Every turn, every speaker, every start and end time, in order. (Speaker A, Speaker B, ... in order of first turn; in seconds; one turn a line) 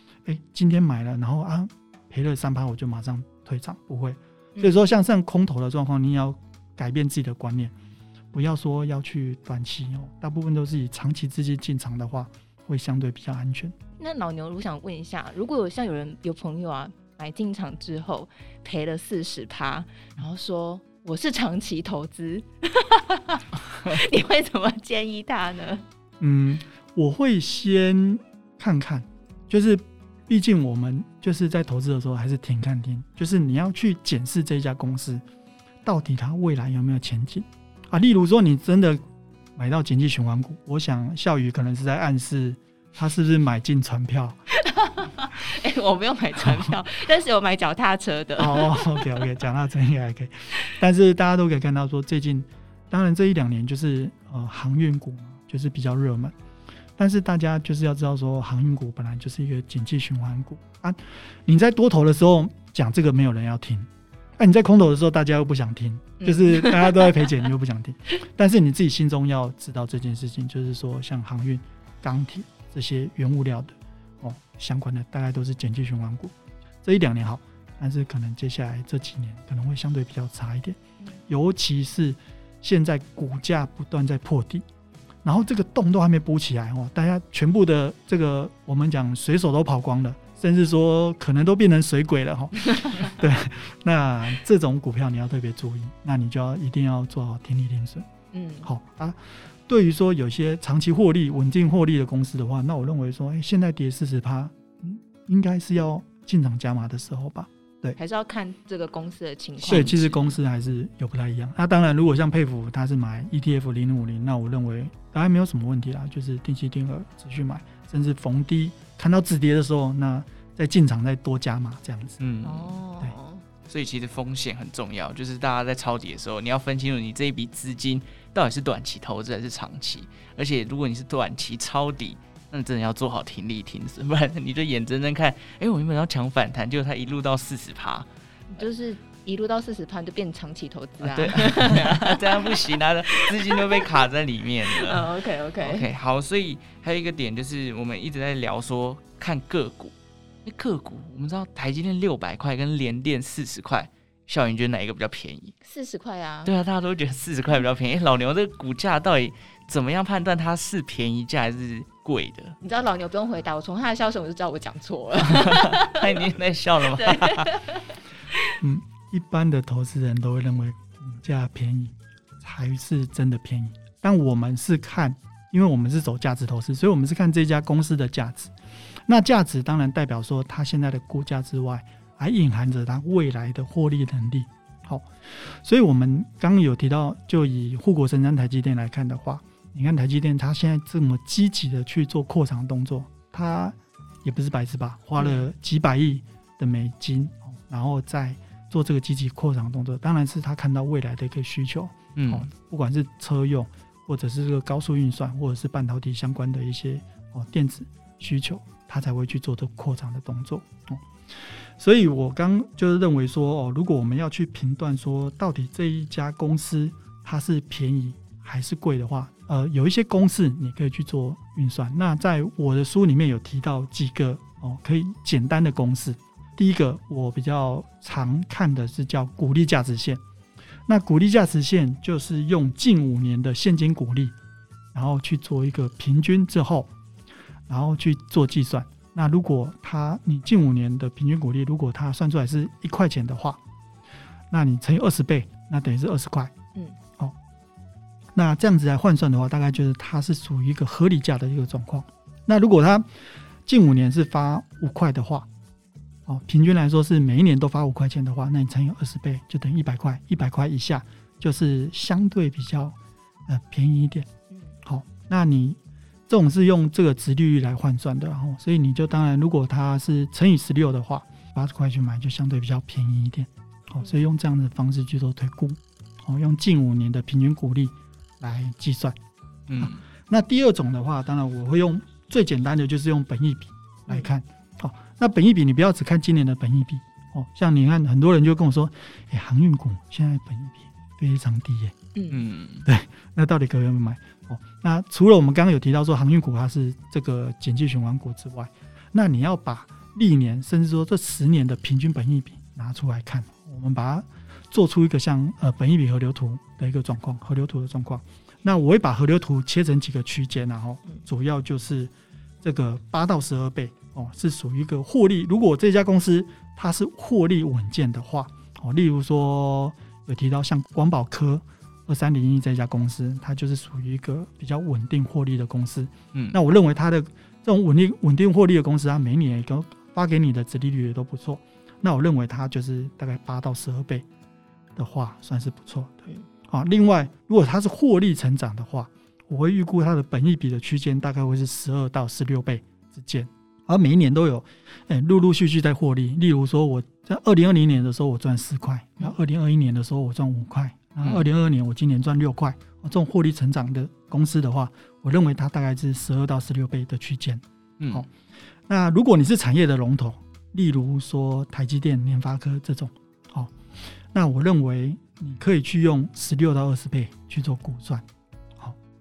Speaker A: 0.2-7.7
Speaker A: 8.3-13.7
Speaker B: 14.0-25.8
Speaker A: 26.2-35.2
Speaker A: 35.8-39.0
Speaker A: 39.5-44.4
Speaker B: 44.6-49.3
Speaker A: 48.4-56.3
Speaker A: 57.0-84.7
Speaker B: 66.2-67.2
Speaker A: 85.2-98.1
Speaker B: 98.3-98.7
Speaker A: 98.6-108.0
Speaker B: 108.0-110.2
Speaker A: 109.7-122.2
Speaker C: 109.7-109.9
Speaker C: 122.2-122.8
Speaker B: 122.4-123.4
Speaker C: 123.7-138.1
Speaker B: 138.5-142.5
Speaker C: 141.0-145.1
Speaker B: 143.1-143.8
Speaker B: 144.8-145.8
Speaker C: 145.6-149.9
Speaker C: 150.4-155.5
Speaker B: 155.6-156.5
Speaker C: 156.4-162.6
Speaker B: 162.6-166.1
Speaker C: 165.3-167.6
Speaker B: 166.9-167.8
Speaker A: 168.6-178.5
Speaker A: 179.1-230.2
Speaker B: 195.2-195.5
Speaker C: 202.2-202.5
Speaker A: 230.9-234.3
Speaker A: 234.9-236.9
Speaker A: 237.7-243.6
Speaker A: 244.5-246.5
Speaker A: 248.3-255.5
Speaker A: 256.3-264.3
Speaker A: 264.8-279.2
Speaker C: 279.7-280.0
Speaker A: 279.8-291.9
Speaker B: 292.1-292.4
Speaker C: 292.3-292.9
Speaker A: 292.9-334.2
Speaker A: 334.9-358.3
Speaker C: 358.0-358.2
Speaker A: 358.9-368.2